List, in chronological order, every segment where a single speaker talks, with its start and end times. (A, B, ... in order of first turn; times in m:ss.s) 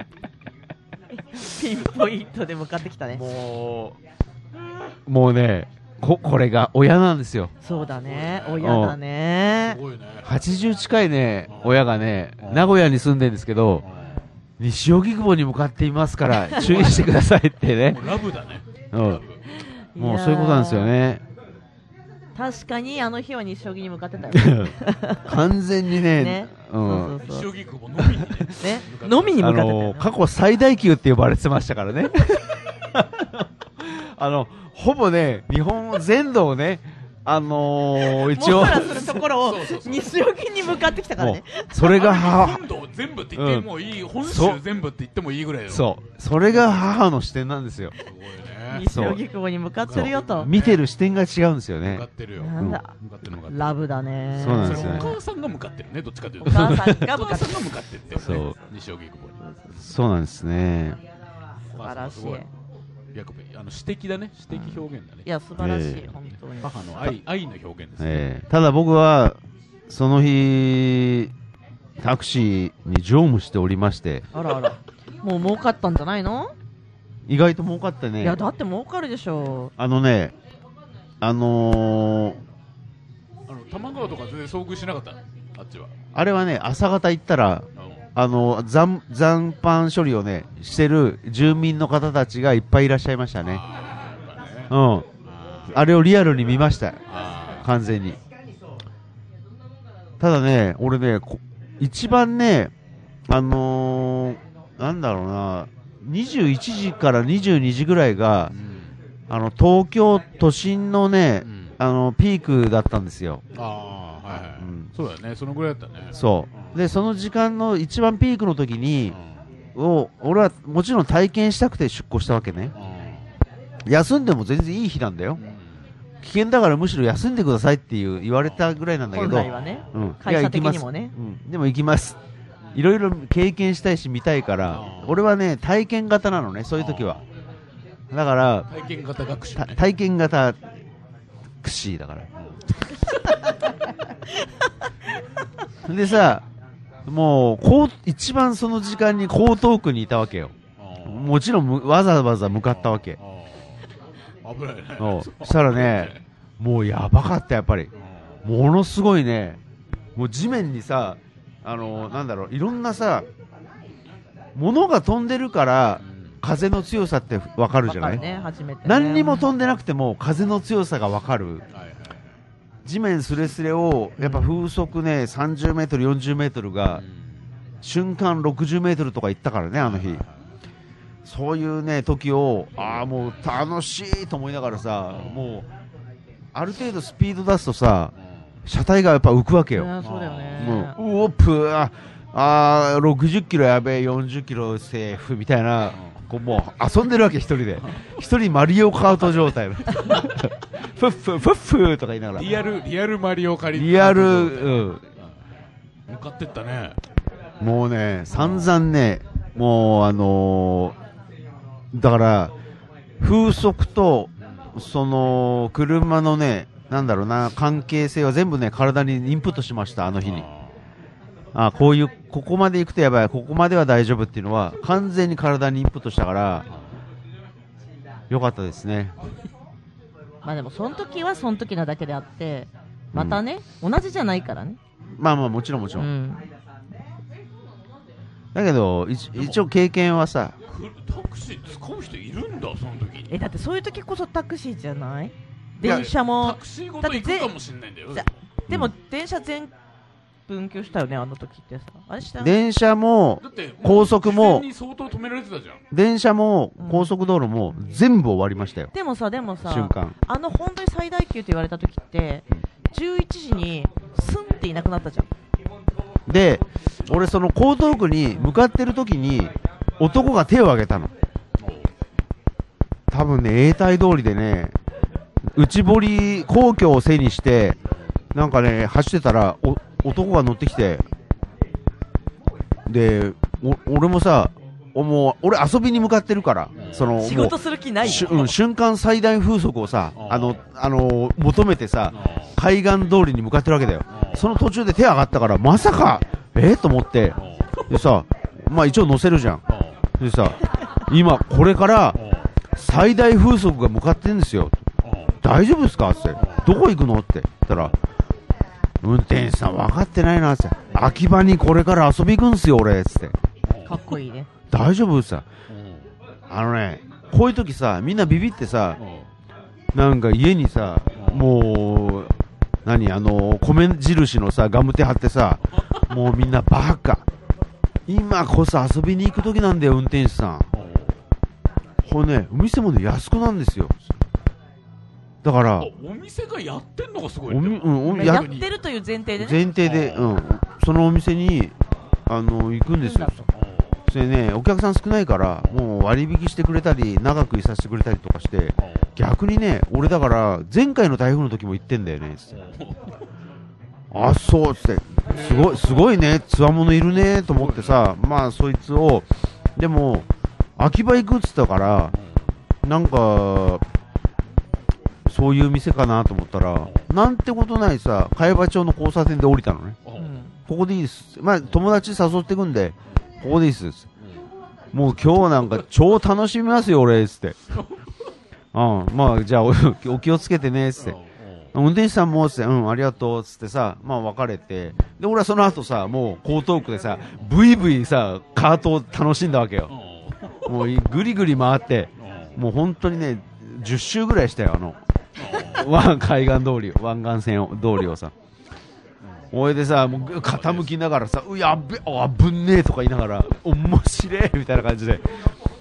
0:01.3-0:03.2 A
0:03.1-0:04.0 B
0:05.0-0:07.5 B
0:07.6-0:09.8 A
0:07.8-0:08.8 C
0:08.6-0:09.0 B
0:09.6-0:10.3 C
0:10.2-0:13.8 B
0:11.5-0:11.8 C
0:12.4-0:12.8 C
0:13.8-0:14.2 C
0:14.6-0:18.0 B
0:16.6-0:17.2 C
0:17.9-0:19.4 C
0:18.9-0:19.2 B
0:19.5-0:20.9 A
0:20.0-0:21.2 B
0:22.3-0:25.3 A
0:24.3-0:24.7 B
0:25.2-0:27.2 B
0:26.1-0:27.5 A
0:27.2-0:29.5 C
0:28.6-0:30.1 A
0:29.4-0:39.2 B
0:38.0-0:41.9 A
0:38.5-0:40.3 C
0:41.2-0:42.6 B
0:41.8-0:45.9 C
0:43.4-0:43.7 B
0:44.2-0:44.6 B
0:45.7-0:47.9 B
0:48.0-0:48.9 C
0:48.7-0:50.5 A
0:48.8-0:49.2 B
0:49.8-0:50.8 C
0:49.9-0:52.0 B
0:51.8-0:53.8 C
0:52.4-0:52.9 A
0:53.5-0:55.2 A
0:54.3-0:59.4 C
0:54.3-0:55.2 B
0:56.4-0:57.7 A
0:56.5-0:57.0 B
0:58.2-0:58.5 B
0:59.4-0:59.7 A
0:59.8-1:01.0 B
1:01.7-1:02.5 A
1:01.7-1:02.5 C
1:03.1-1:05.3 C
1:04.5-1:06.7 A
1:05.6-1:06.0 B
1:06.3-1:08.3 C
1:08.0-1:09.4 B
1:09.9-1:11.3 B
1:12.0-1:14.2 B
1:14.3-1:16.5 A
1:17.3-1:18.4 B
1:18.2-1:19.7 A
1:19.8-1:20.3 B
1:21.2-1:22.4 B
1:23.5-1:25.9 C
1:26.1-1:27.6 B
1:27.8-1:28.0 C
1:28.2-1:33.6 B
1:33.4-1:34.7 C
1:34.7-1:35.1 B
1:35.2-1:35.8 C
1:35.7-1:38.2 B
1:37.1-1:37.7 C
1:40.2-1:42.7 B
1:43.3-1:48.5 B
1:48.5-1:48.9 C
1:49.3-1:53.4 B
1:51.4-1:51.7 C
1:53.5-1:56.8 C
1:54.3-1:54.9 B
1:56.1-1:59.2 B
1:59.1-1:59.4 C
1:59.7-2:02.7 B
2:02.8-2:03.3 C
2:03.9-2:05.4 B
2:05.4-2:05.8 C
2:06.2-2:12.2 B
2:09.1-2:11.1 A
2:09.1-2:09.8 C
2:12.7-2:17.2 B
2:14.7-2:15.3 C
2:16.8-2:17.2 C
2:18.1-2:18.7 B
2:18.7-2:19.8 C
2:19.6-2:20.6 B
2:21.6-2:22.3 B
2:22.4-2:22.8 C
2:25.8-2:26.4 B
2:27.0-2:33.2 B
2:30.8-2:31.3 C
2:32.7-2:33.8 C
2:34.4-2:36.2 C
2:35.0-2:37.9 B
2:38.0-2:38.3 C
2:38.4-2:39.6 B
2:40.2-2:43.3 B
2:44.5-2:48.2 B
2:46.0-2:46.3 C
2:47.9-2:49.5 A
2:48.0-2:48.5 C
2:48.8-2:51.6 B
2:51.7-2:52.2 C
2:52.8-2:57.0 B
2:54.2-2:54.5 A
2:56.9-2:57.3 C
2:57.8-3:00.2 B
2:59.8-3:00.4 C
3:01.2-3:05.7 B
3:02.8-3:03.0 C
3:05.1-3:05.6 C
3:06.5-3:08.1 B
3:08.6-3:09.9 B
3:09.7-3:11.0 A
3:10.0-3:10.8 C
3:10.6-3:22.6 B
3:15.9-3:16.2 C
3:17.8-3:18.1 C
3:19.9-3:20.2 C
3:22.3-3:25.3 C
3:23.7-3:25.0 B
3:26.1-3:27.0 C
3:27.6-3:30.9 B
3:28.3-3:28.7 C
3:31.9-3:32.5 B
3:33.2-3:40.4 B
3:34.4-3:34.7 C
3:40.2-3:40.7 C
3:41.5-3:46.7 B
3:46.7-3:46.9 C
3:48.3-3:49.1 B
3:50.4-3:54.8 A
3:53.1-3:53.4 B
3:55.2-3:56.1 B
3:56.0-3:56.5 A
3:58.5-4:00.5 B
3:59.4-3:59.6 C
4:00.7-4:03.3 C
4:03.3-4:07.5 A
4:05.8-4:08.3 C
4:05.8-4:06.1 B
4:08.1-4:09.7 A
4:10.5-4:12.6 A
4:12.4-4:14.7 B
4:13.4-4:15.8 C
4:15.9-4:18.9 B
4:16.8-4:17.1 A
4:18.9-4:25.3 A
4:19.6-4:20.1 B
4:26.3-4:31.1 B
4:31.6-4:31.9 C
4:33.1-4:34.7 B
4:35.4-4:37.8 B
4:38.3-4:41.0 B
4:42.9-4:57.4 B
4:46.8-4:47.2 C
4:47.2-4:48.4 A
4:48.0-4:48.5 C
4:50.1-4:50.6 C
4:52.1-4:52.5 C
4:54.1-4:54.5 C
4:57.4-4:58.1 C
4:57.9-4:59.6 B
4:59.7-5:00.0 C
5:00.2-5:02.2 B
5:02.2-5:02.5 C
5:02.8-5:04.8 B
5:05.0-5:05.3 C
5:05.4-5:08.0 B
5:06.4-5:06.7 C
5:09.0-5:13.3 B
5:13.7-5:14.0 C
5:13.8-5:14.5 A
5:14.7-5:15.4 B
5:15.7-5:16.1 C
5:16.5-5:19.0 B
5:19.0-5:19.3 C
5:19.9-5:22.3 B
5:21.2-5:21.5 C
5:22.8-5:27.2 B
5:28.1-5:30.7 B
5:30.7-5:31.2 C
5:32.0-5:34.0 B
5:35.4-5:35.9 B
5:35.8-5:38.8 C
5:37.5-5:38.5 B
5:38.1-5:39.6 A
5:39.4-5:41.7 B
5:39.8-5:40.4 C
5:42.3-5:43.4 B
5:43.0-5:43.5 A
5:43.5-5:43.9 C
5:44.1-5:52.6 B
5:48.8-5:49.1 C
5:52.5-5:53.2 C
5:54.1-6:00.3 B
5:55.2-5:56.1 C
5:57.4-5:58.1 C
6:00.8-6:02.1 B
6:02.1-6:02.4 C
6:02.8-6:03.8 B
6:05.3-6:10.0 B
6:06.8-6:07.1 C
6:10.0-6:10.4 C
6:10.2-6:10.5 A
6:10.7-6:14.1 B
6:14.9-6:17.6 B
6:17.7-6:18.0 C
6:18.7-6:21.2 B
6:21.0-6:21.7 C
6:21.7-6:29.9 B
6:29.9-6:30.8 C
6:30.6-6:35.0 B
6:32.2-6:32.6 C
6:35.4-6:35.9 C
6:35.5-6:38.3 B
6:39.2-6:40.9 C
6:39.5-6:45.4 B